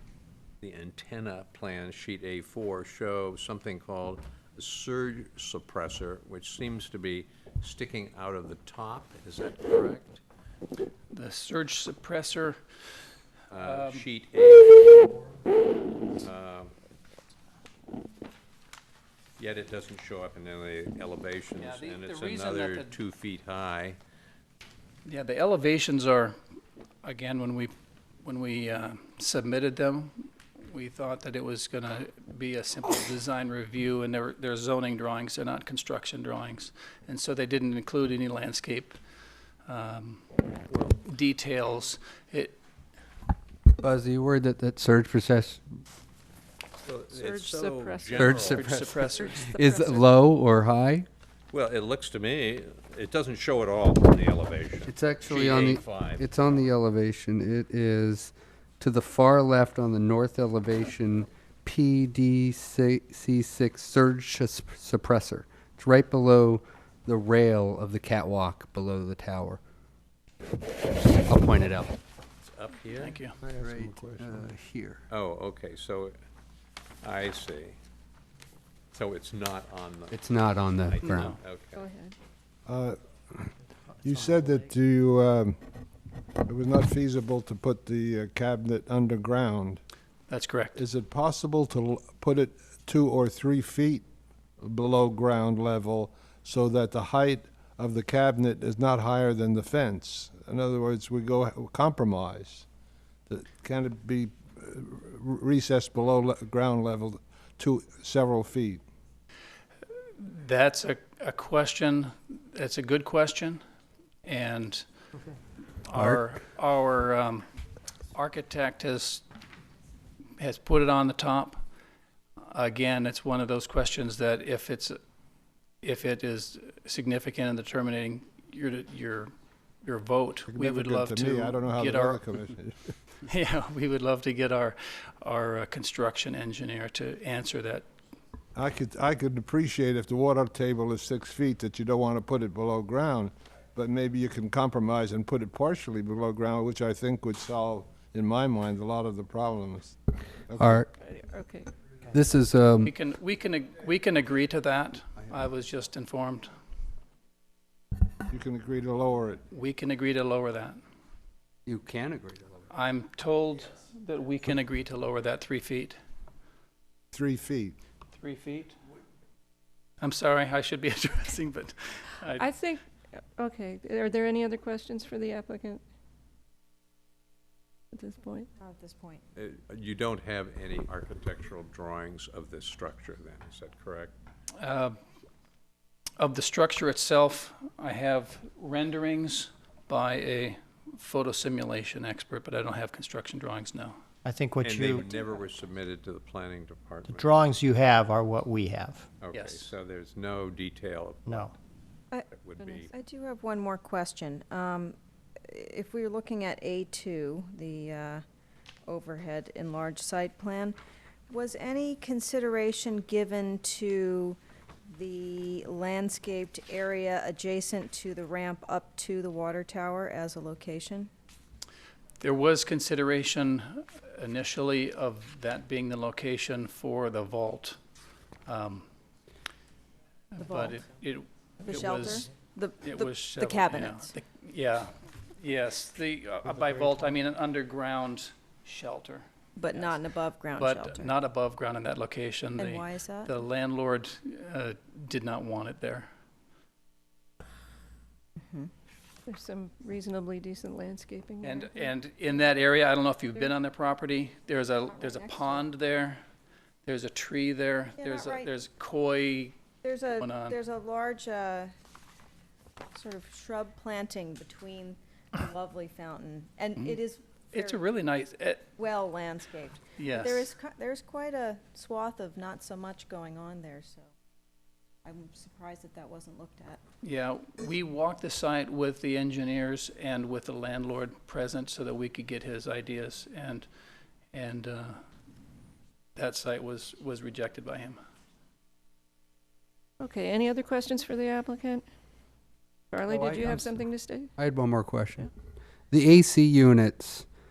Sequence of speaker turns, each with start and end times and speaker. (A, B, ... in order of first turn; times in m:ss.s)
0:00.6-0:10.2 A
0:11.1-0:12.6 B
0:13.5-0:15.1 A
0:13.6-0:14.1 B
0:16.2-0:16.7 A
0:19.4-0:24.0 A
0:21.6-0:23.0 B
0:25.1-0:26.4 B
0:27.0-0:27.7 B
0:28.2-0:39.0 B
0:39.7-0:42.6 B
0:43.8-0:45.6 C
0:46.8-0:48.9 A
0:47.1-0:48.3 D
0:48.2-0:48.7 C
0:48.4-0:49.5 B
0:49.4-0:50.1 D
0:49.5-0:51.1 C
0:51.5-0:56.6 A
0:54.9-1:09.6 C
1:11.2-1:11.9 C
1:12.4-1:13.2 A
1:13.0-1:13.4 B
1:13.4-1:14.4 E
1:13.5-1:15.0 C
1:15.1-1:16.2 A
1:17.0-1:17.8 A
1:18.9-1:20.2 A
1:20.1-1:21.4 C
1:20.9-1:21.8 A
1:21.0-1:21.4 B
1:21.7-1:22.2 D
1:22.7-1:23.0 E
1:24.0-1:25.6 E
1:26.5-1:29.8 E
1:30.3-1:30.8 B
1:30.8-1:34.0 E
1:34.6-1:42.7 E
1:43.3-1:48.8 E
1:50.2-1:53.6 B
1:54.2-1:54.8 B
1:55.8-1:57.5 B
1:58.1-1:59.2 B
2:00.4-2:01.6 B
2:02.5-2:05.0 B
2:05.8-2:09.3 B
2:09.8-2:12.3 B
2:10.5-2:12.9 E
2:13.3-2:17.9 B
2:18.6-2:30.8 E
2:30.6-2:30.9 C
2:31.0-2:31.7 D
2:32.1-2:32.9 C
2:32.8-2:36.5 B
2:38.3-2:39.4 E
2:39.5-2:40.8 B
2:41.7-2:42.7 C
2:42.7-2:46.0 B
2:47.1-2:47.8 E
2:48.2-2:48.8 B
2:50.0-2:52.5 B
2:52.3-2:52.8 D
2:53.4-2:55.8 D
2:57.9-2:58.5 D
2:58.6-2:59.2 F
2:59.4-3:04.1 A
3:04.6-3:05.0 B
3:06.2-3:14.0 B
3:14.2-3:15.1 G
3:14.6-3:17.4 A
3:17.1-3:19.1 G
3:19.2-3:21.5 A
3:19.3-3:19.7 B
3:21.3-3:21.6 G
3:22.1-3:28.2 F
3:22.3-3:22.9 A
3:28.9-3:30.8 F
3:31.3-3:34.4 F
3:34.9-3:41.1 F
3:42.2-3:47.8 B
3:48.5-3:48.9 B
3:50.3-3:52.3 B
3:50.4-3:50.8 F
3:51.6-3:54.2 F
3:52.8-4:00.0 B
3:59.6-4:01.2 F
4:00.6-4:06.1 B
4:02.6-4:03.3 F
4:08.4-4:08.7 F
4:09.3-4:11.9 D
4:11.4-4:16.2 B
4:14.9-4:15.6 F
4:16.8-4:19.6 B
4:18.0-4:18.5 F
4:19.8-4:21.7 F
4:20.2-4:20.6 B
4:22.9-4:27.8 F
4:27.5-4:28.7 B
4:28.8-4:34.1 F
4:30.0-4:30.5 B
4:35.0-4:36.8 F
4:37.0-4:43.7 B
4:44.3-4:45.0 B
4:46.2-4:48.0 B
4:50.0-4:51.8 D
4:52.9-4:54.4 D
4:53.1-4:53.8 C
4:54.4-4:55.3 C
4:55.9-4:57.3 C